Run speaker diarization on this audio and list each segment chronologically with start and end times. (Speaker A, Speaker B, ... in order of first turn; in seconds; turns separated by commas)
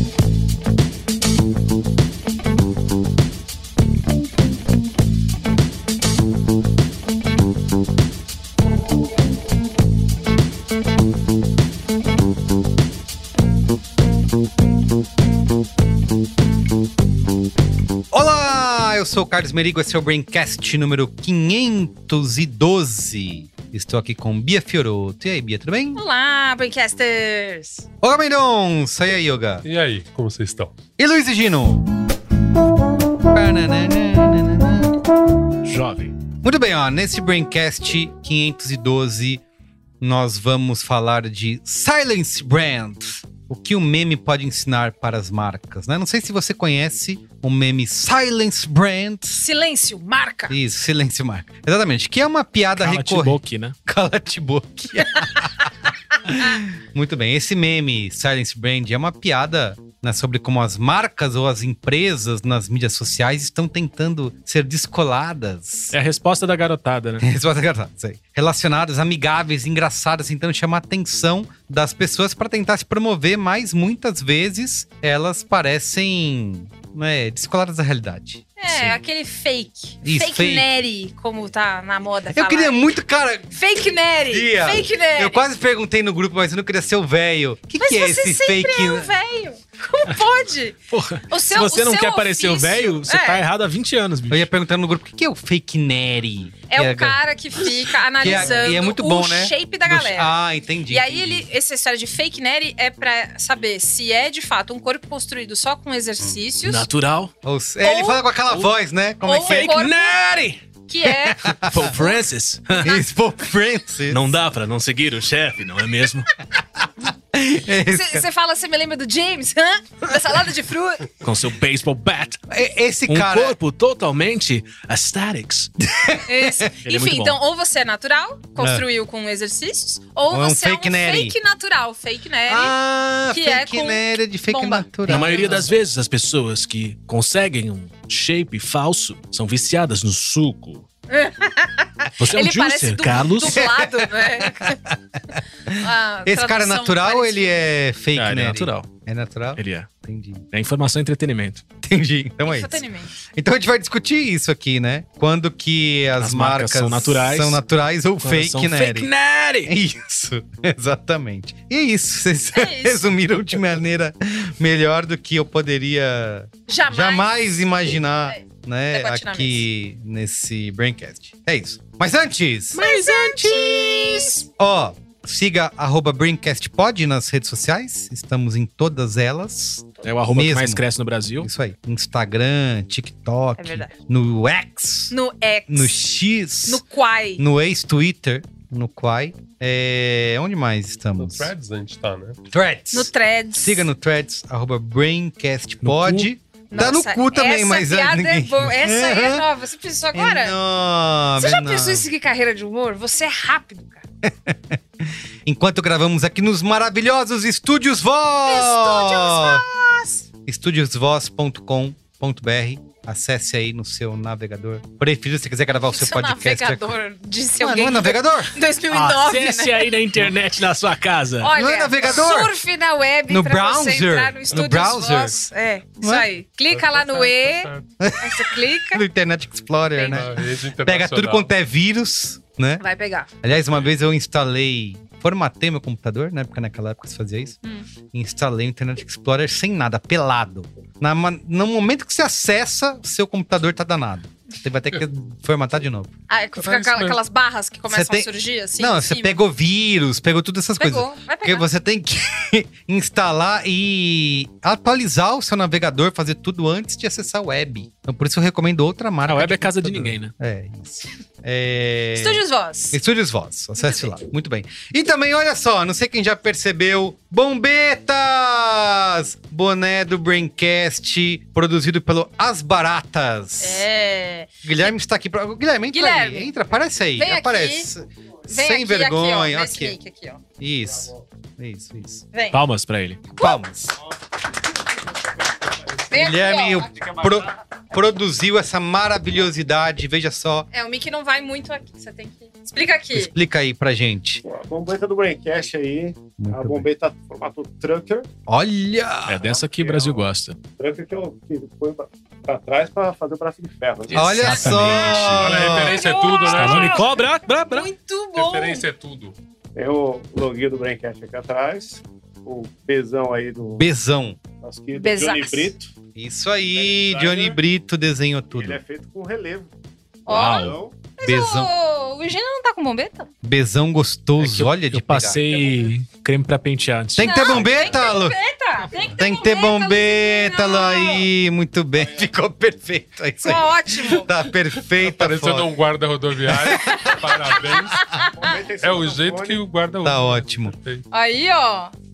Speaker A: 18.1-26.0, Speaker B: 25.9-27.9, Speaker A: 28.0-29.6, Speaker C: 29.6-30.7, Speaker A: 31.0-31.9, Speaker A: 33.3-35.0, Speaker D: 35.6-36.1, Speaker A: 36.4-39.4, Speaker A: 40.0-49.4, Speaker B: 49.4-50.5, Speaker A: 50.5-65.9, Speaker D: 52.8-53.7, Speaker D: 65.9-67.2, Speaker A: 67.2-79.0, Speaker B: 78.6-82.8, Speaker A: 80.0-80.7, Speaker A: 82.3-83.6, Speaker B: 83.5-85.4, Speaker A: 84.3-89.1, Speaker B: 87.8-93.4, Speaker D: 90.9-94.5, Speaker A: 94.3-101.5, Speaker B: 96.7-100.3, Speaker B: 100.9-106.9, Speaker D: 106.6-107.3, Speaker A: 107.4-109.8, Speaker B: 107.8-108.2, Speaker B: 109.2-110.2, Speaker D: 109.4-110.6, Speaker B: 110.9-112.2, Speaker A: 111.1-111.9, Speaker D: 111.7-112.9, Speaker A: 112.8-114.2, Speaker D: 114.1-116.3, Speaker A: 117.3-118.2, Speaker B: 117.7-121.1, Speaker D: 121.2-122.4, Speaker A: 122.5-123.6, Speaker D: 123.1-125.7, Speaker A: 125.8-126.7, Speaker B: 126.2-132.7, Speaker D: 126.8-127.4, Speaker A: 128.6-128.8, Speaker A: 130.3-131.3, Speaker A: 132.5-135.6, Speaker B: 133.3-135.7, Speaker D: 135.0-140.8, Speaker B: 141.1-144.8, Speaker D: 142.2-143.6, Speaker A: 143.4-150.4, Speaker B: 145.8-147.6, Speaker D: 148.1-148.9, Speaker D: 149.6-149.9, Speaker D: 150.5-151.7, Speaker A: 151.8-159.1, Speaker B: 152.4-153.1, Speaker D: 156.2-157.6, Speaker D: 158.2-159.7, Speaker A: 159.6-180.8, Speaker B: 162.5-163.1, Speaker B: 166.7-167.7, Speaker B: 168.2-169.6, Speaker D: 172.7-174.4, Speaker B: 172.8-174.4, Speaker D: 180.0-181.5, Speaker A: 181.4-185.1, Speaker B: 183.6-183.9, Speaker B: 185.1-185.9, Speaker A: 185.7-186.8, Speaker B: 186.6-187.4, Speaker A: 187.4-191.5, Speaker C: 191.2-192.4, Speaker A: 192.5-199.4, Speaker B: 192.9-193.9, Speaker D: 195.8-196.3, Speaker B: 196.7-200.6, Speaker A: 200.1-202.1, Speaker B: 201.4-204.0, Speaker A: 204.2-209.6, Speaker B: 208.4-210.2, Speaker A: 210.4-217.0, Speaker B: 215.7-220.0, Speaker A: 217.6-218.6, Speaker D: 218.9-221.5, Speaker B: 221.4-229.0, Speaker A: 221.5-222.5, Speaker A: 223.3-225.4, Speaker A: 226.0-226.3, Speaker C: 226.7-227.8, Speaker A: 228.0-232.8, Speaker B: 229.9-230.2, Speaker C: 230.1-231.5, Speaker B: 232.8-233.3, Speaker A: 233.4-237.6, Speaker A: 238.1-246.1, Speaker B: 246.3-249.4, Speaker C: 246.6-247.2, Speaker A: 247.9-273.9, Speaker B: 250.8-251.7, Speaker D: 259.2-260.3, Speaker B: 262.1-263.0, Speaker B: 263.8-264.1, Speaker B: 273.6-274.5, Speaker A: 274.6-280.0, Speaker B: 275.9-276.5, Speaker B: 277.1-277.9, Speaker B: 278.5-280.4, Speaker A: 280.6-282.3, Speaker B: 282.3-282.6, Speaker D: 282.5-283.3, Speaker A: 283.4-284.0, Speaker B: 283.4-283.6, Speaker E: 285.9-286.3, Speaker B: 286.1-286.9, Speaker A: 286.1-290.7, Speaker E: 286.9-287.5, Speaker B: 290.7-293.3, Speaker A: 293.1-294.4, Speaker E: 294.4-298.3, Speaker A: 296.4-296.9, Speaker A: 298.5-299.4, Speaker D: 299.2-300.6, Speaker E: 299.4-305.0, Speaker D: 304.1-305.9, Speaker A: 304.1-306.0, Speaker C: 305.2-307.1, Speaker B: 305.7-308.8, Speaker D: 306.4-307.9, Speaker C: 308.3-309.4, Speaker E: 309.7-313.9, Speaker A: 313.8-314.4, Speaker E: 314.6-315.9, Speaker B: 314.9-315.7, Speaker A: 316.1-318.8, Speaker E: 316.7-317.6, Speaker E: 318.5-319.7, Speaker B: 320.2-323.3, Speaker E: 320.3-320.9, Speaker D: 320.3-320.7, Speaker A: 321.2-321.7, Speaker A: 323.4-325.4, Speaker D: 324.4-327.8, Speaker E: 325.5-325.9, Speaker A: 327.1-328.4, Speaker B: 327.2-331.3, Speaker A: 329.1-335.7, Speaker E: 331.9-332.3, Speaker B: 333.4-334.3, Speaker C: 335.0-338.1, Speaker A: 336.5-338.3, Speaker B: 336.9-338.4, Speaker E: 338.3-339.6, Speaker C: 338.8-341.1, Speaker A: 340.0-340.7, Speaker B: 341.1-341.9